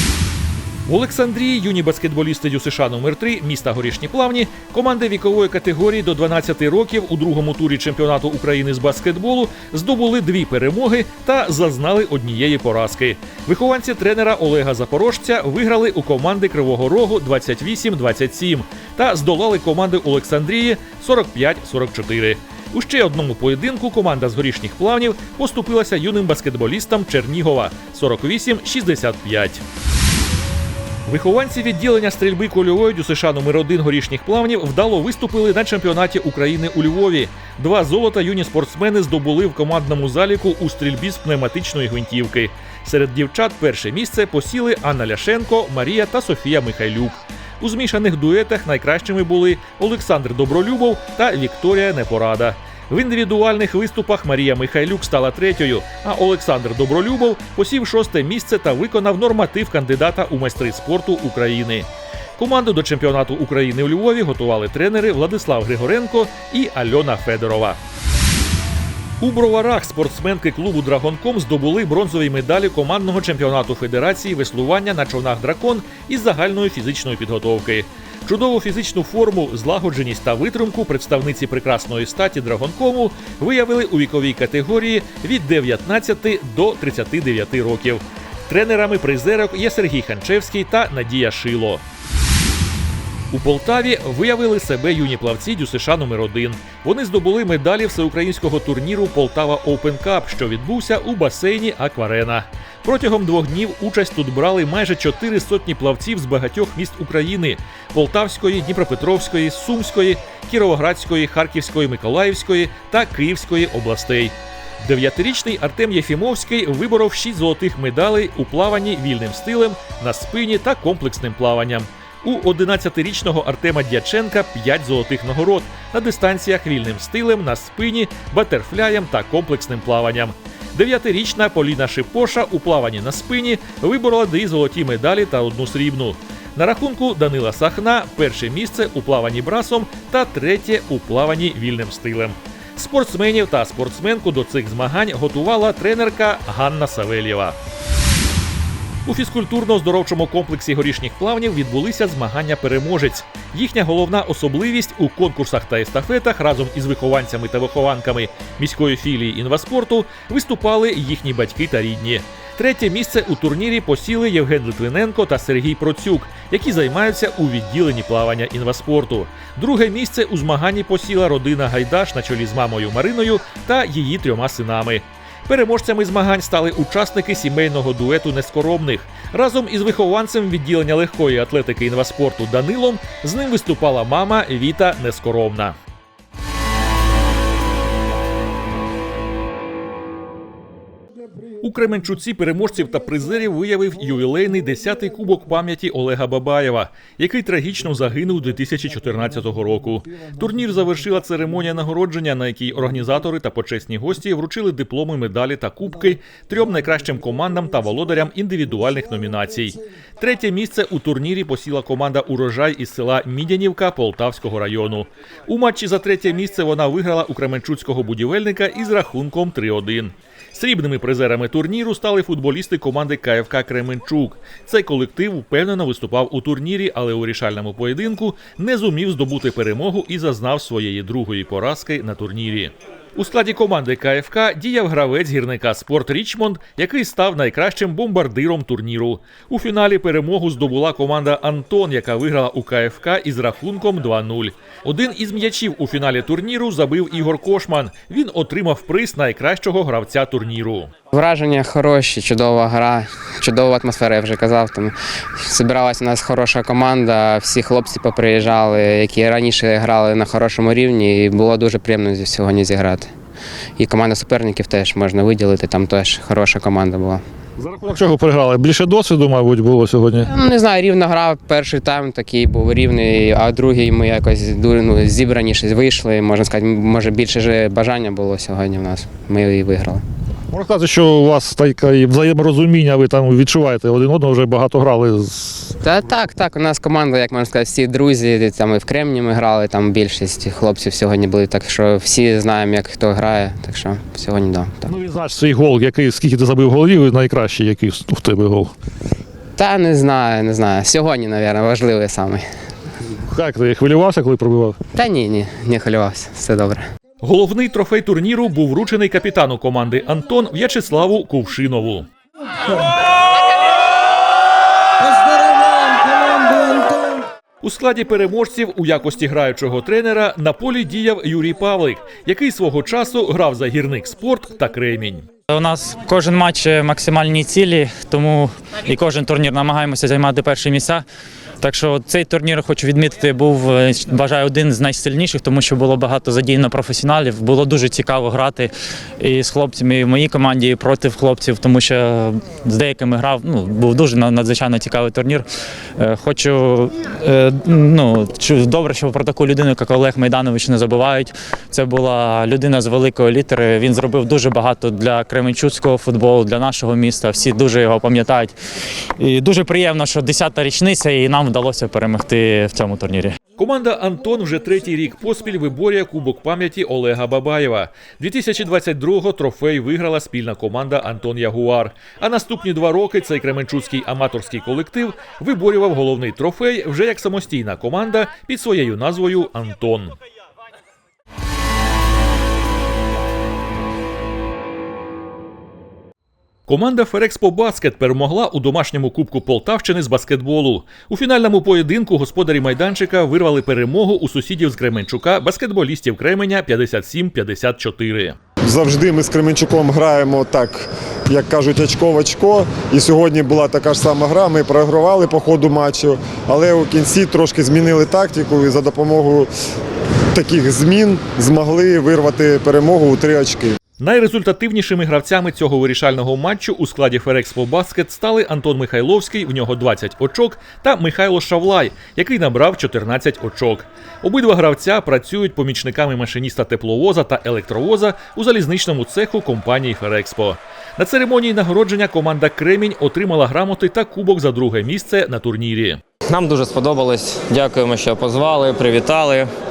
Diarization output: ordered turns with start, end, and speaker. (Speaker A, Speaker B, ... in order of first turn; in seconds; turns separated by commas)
Speaker A: 0.9-29.6, Speaker A: 31.1-67.8, Speaker A: 69.2-91.8, Speaker A: 93.3-147.6, Speaker A: 149.1-185.8, Speaker A: 191.6-250.9, Speaker B: 251.1-263.1, Speaker B: 263.8-267.2, Speaker C: 267.6-270.3, Speaker B: 270.3-280.0, Speaker C: 280.5-285.8, Speaker B: 285.8-294.9, Speaker C: 294.9-298.7, Speaker B: 299.6-302.5, Speaker C: 303.3-304.8, Speaker B: 305.0-306.9, Speaker A: 307.2-312.1, Speaker A: 317.6-325.3, Speaker D: 325.5-331.0, Speaker D: 331.6-358.6, Speaker D: 359.2-363.4, Speaker A: 363.6-380.2, Speaker A: 386.7-398.4, Speaker E: 398.7-409.5, Speaker E: 410.3-413.8, Speaker A: 414.0-436.0, Speaker F: 436.3-439.5